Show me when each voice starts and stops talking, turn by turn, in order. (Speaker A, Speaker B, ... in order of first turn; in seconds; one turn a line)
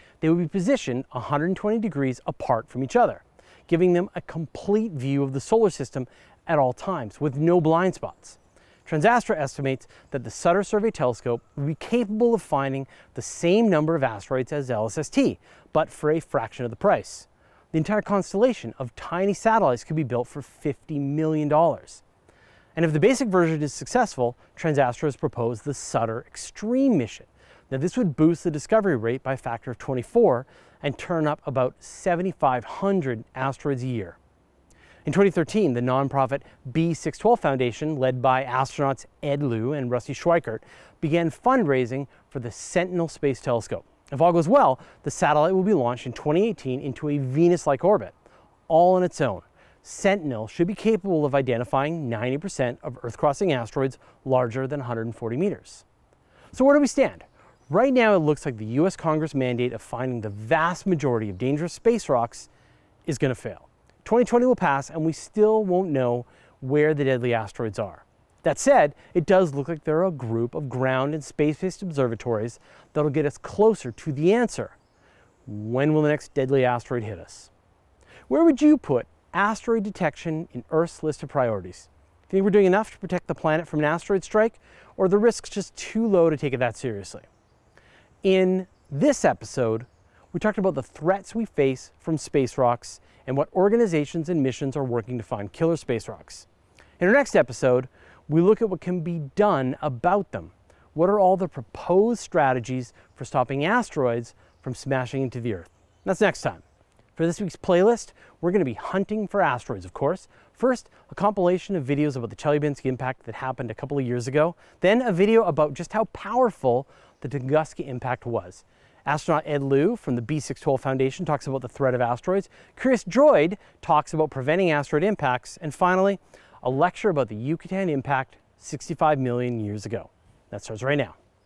Speaker A: 0.2-22.0
Speaker A: 22.8-34.2
Speaker A: 35.1-48.1
Speaker A: 48.7-55.9
Speaker A: 56.5-62.5
Speaker A: 63.1-74.8
Speaker A: 75.5-77.5
Speaker A: 78.3-87.3
Speaker A: 88.2-96.5
Speaker A: 97.0-106.6
Speaker A: 107.2-131.2